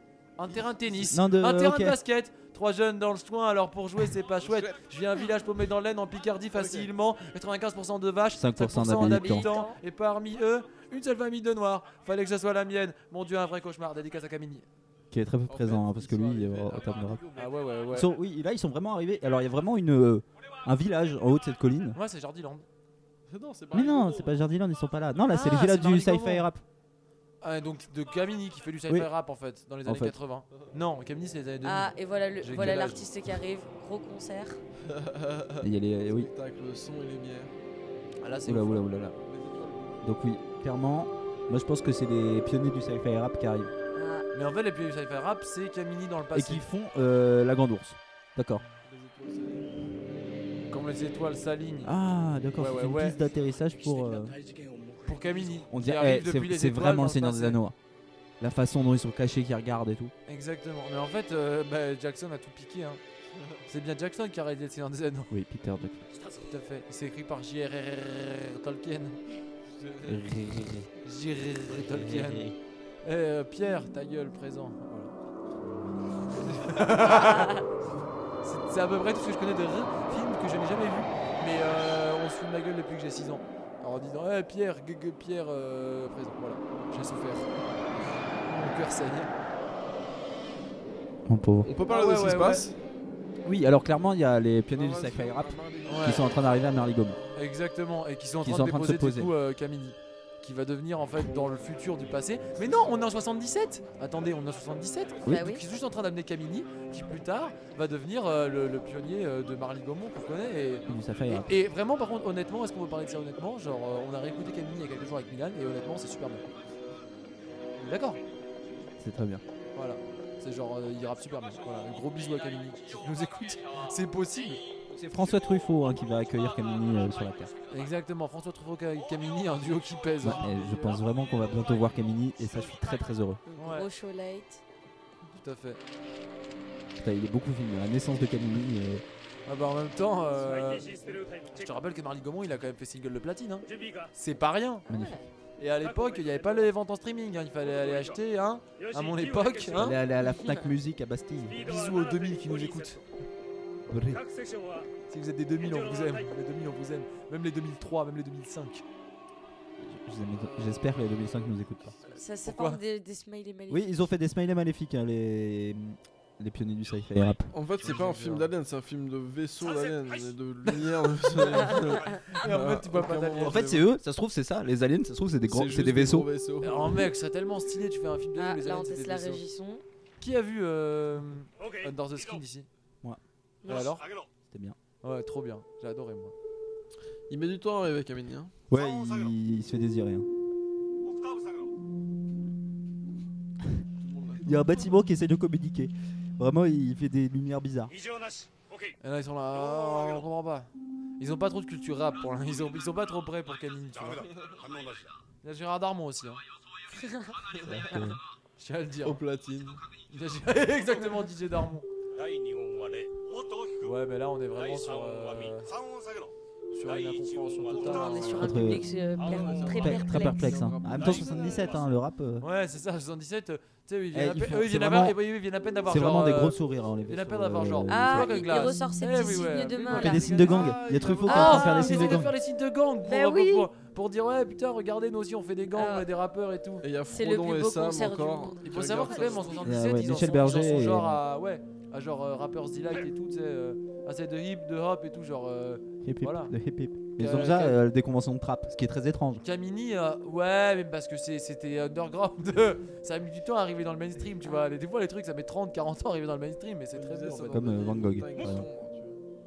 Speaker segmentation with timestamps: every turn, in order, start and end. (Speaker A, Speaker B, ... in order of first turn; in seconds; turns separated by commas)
Speaker A: 0.4-14.7, Speaker B: 0.5-1.1, Speaker C: 1.1-2.0, Speaker B: 4.4-4.8, Speaker B: 6.5-6.9, Speaker C: 8.3-9.5, Speaker D: 9.0-9.8, Speaker C: 15.1-17.2, Speaker B: 15.5-17.8, Speaker A: 17.4-18.1, Speaker C: 17.9-22.0, Speaker A: 21.9-22.6, Speaker B: 23.3-24.4, Speaker C: 23.7-26.6, Speaker A: 25.3-26.5, Speaker A: 27.4-33.0, Speaker C: 29.8-30.1, Speaker D: 31.6-34.6, Speaker B: 34.8-37.5, Speaker C: 35.6-36.3, Speaker A: 38.2-38.8, Speaker C: 38.4-39.1, Speaker B: 39.2-40.1, Speaker C: 40.0-43.7, Speaker D: 43.9-44.2, Speaker A: 44.3-46.6, Speaker C: 46.3-48.6, Speaker B: 48.8-49.8, Speaker A: 50.7-51.9, Speaker C: 51.8-54.4, Speaker A: 52.6-53.2, Speaker A: 55.0-57.6, Speaker C: 55.7-57.7, Speaker C: 58.4-60.1, Speaker A: 60.3-63.0, Speaker B: 63.3-63.6, Speaker A: 63.7-65.3, Speaker C: 65.3-66.0, Speaker A: 66.3-69.2, Speaker B: 69.7-70.3, Speaker C: 70.0-70.9, Speaker A: 71.0-72.5, Speaker C: 71.7-72.5, Speaker A: 73.0-75.1, Speaker A: 76.6-77.6, Speaker A: 78.4-87.5, Speaker A: 88.5-89.3, Speaker C: 91.2-91.7, Speaker B: 91.6-92.8, Speaker A: 91.9-92.7, Speaker C: 93.4-97.2, Speaker B: 94.7-96.4, Speaker A: 95.9-96.2, Speaker A: 97.3-116.4, Speaker C: 98.4-99.3, Speaker D: 105.2-105.6, Speaker C: 110.9-111.5, Speaker A: 117.8-118.2, Speaker C: 119.0-119.4, Speaker A: 119.7-124.6, Speaker C: 124.9-127.5, Speaker A: 127.7-130.8, Speaker C: 130.2-133.4, Speaker B: 130.4-130.9, Speaker D: 133.5-134.6, Speaker A: 133.6-133.9, Speaker A: 135.3-135.8, Speaker C: 136.9-139.0, Speaker A: 139.4-144.8, Speaker C: 144.9-145.2, Speaker D: 144.9-145.2, Speaker A: 145.6-150.0, Speaker C: 149.7-151.6, Speaker D: 150.2-150.7, Speaker A: 151.6-153.0, Speaker C: 153.9-154.2, Speaker A: 155.1-158.8, Speaker C: 159.8-161.9, Speaker B: 160.4-161.2, Speaker B: 161.9-162.2, Speaker D: 162.1-163.9, Speaker A: 162.4-162.8, Speaker C: 163.7-167.5, Speaker B: 167.5-173.8, Speaker A: 167.8-168.5, Speaker A: 171.6-173.8, Speaker C: 173.4-176.3, Speaker B: 175.5-177.1, Speaker A: 176.6-179.4, Speaker D: 178.4-179.8, Speaker A: 180.2-182.7, Speaker D: 183.6-183.9, Speaker A: 183.7-184.0, Speaker C: 184.5-184.8, Speaker A: 185.0-186.3, Speaker B: 187.3-188.5, Speaker C: 188.7-190.3, Speaker B: 194.0-194.8, Speaker C: 194.4-197.9, Speaker A: 199.0-200.7, Speaker A: 201.2-204.3, Speaker B: 204.2-204.7, Speaker A: 205.4-206.4, Speaker B: 207.5-208.1, Speaker C: 207.7-208.2, Speaker A: 208.6-209.2, Speaker B: 209.0-209.8, Speaker A: 210.1-211.8, Speaker A: 213.8-215.7, Speaker A: 216.7-218.5, Speaker D: 217.8-220.7, Speaker C: 218.4-218.8, Speaker B: 219.2-221.8, Speaker C: 219.7-222.4, Speaker A: 222.4-236.8, Speaker C: 224.1-225.2, Speaker C: 225.8-228.5, Speaker D: 227.9-230.6, Speaker C: 229.9-232.3, Speaker B: 230.3-231.6, Speaker D: 231.2-232.2, Speaker D: 233.0-233.7, Speaker D: 235.7-236.1, Speaker B: 236.8-239.7, Speaker D: 237.1-239.6, Speaker A: 238.6-246.5, Speaker C: 239.6-241.2, Speaker C: 246.0-249.4, Speaker A: 247.2-247.8, Speaker A: 249.4-257.7, Speaker B: 256.9-259.2, Speaker C: 257.5-258.7